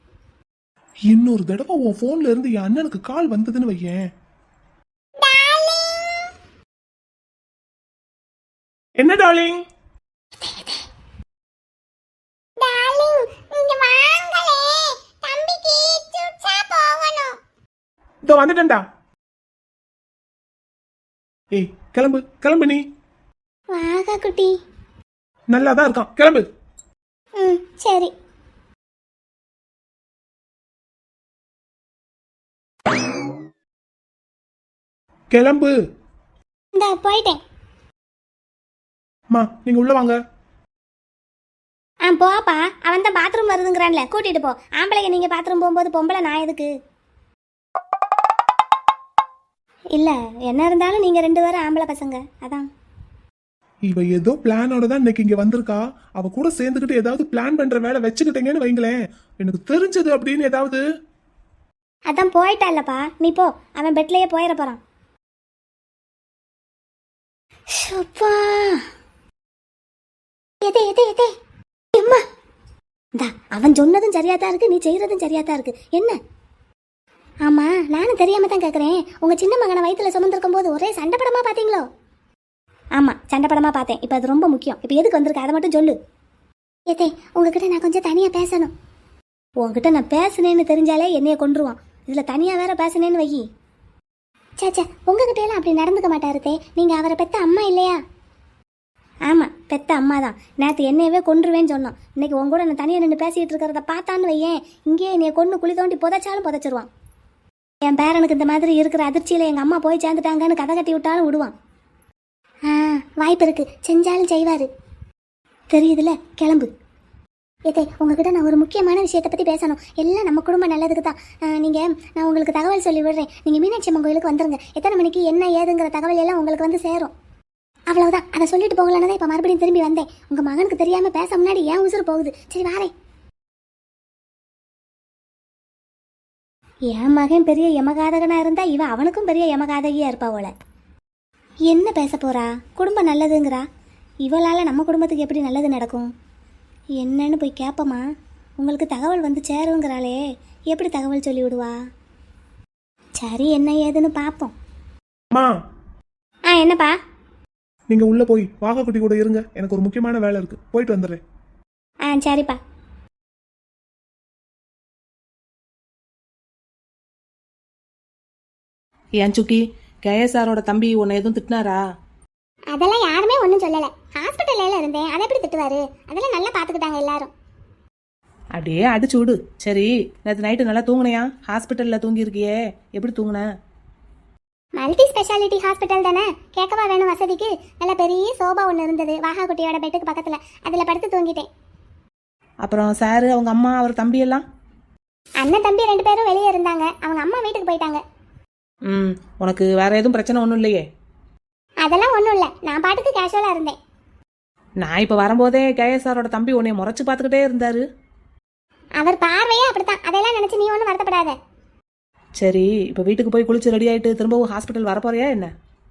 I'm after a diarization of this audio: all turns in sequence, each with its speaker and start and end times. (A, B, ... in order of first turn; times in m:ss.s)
0:01.1-0:04.1 A
0:05.2-0:06.3 B
0:09.0-0:09.6 A
0:12.6-0:17.4 B
0:18.3-0:18.8 A
0:21.5-0:22.9 A
0:23.7-0:24.6 B
0:25.5-0:26.4 A
0:27.4-0:28.1 B
0:35.3-0:35.8 A
0:36.8-0:37.4 B
0:39.3-0:40.2 A
0:42.0-0:46.7 B
0:50.0-0:52.7 B
0:53.9-1:00.8 A
1:02.1-1:04.8 B
1:07.7-1:08.9 B
1:10.6-1:11.4 B
1:12.0-1:12.2 B
1:13.2-1:16.2 B
1:17.4-1:21.9 B
1:23.0-1:26.0 B
1:26.9-1:28.7 B
1:29.6-1:33.4 B
1:34.6-1:38.0 B
1:39.3-1:46.9 B
1:47.8-1:51.5 B
1:52.7-1:54.7 B
1:55.7-1:56.7 B
1:57.7-2:07.1 B
2:07.9-2:12.9 B
2:16.9-2:20.5 B
2:21.7-2:23.7 B
2:24.2-2:26.1 B
2:27.0-2:28.0 B
2:28.6-2:30.2 B
2:30.7-2:31.8 B
2:33.2-2:34.5 B
2:36.5-2:37.0 B
2:37.9-2:41.2 A
2:42.1-2:42.6 B
2:49.2-2:51.8 C
2:52.7-2:57.3 B
2:58.6-3:03.5 C
3:04.8-3:11.5 B
3:12.6-3:14.4 C
3:15.4-3:18.0 B
3:18.9-3:20.8 C
3:21.8-3:23.8 B
3:24.8-3:27.8 C
3:29.0-3:31.4 B
3:32.4-3:35.5 C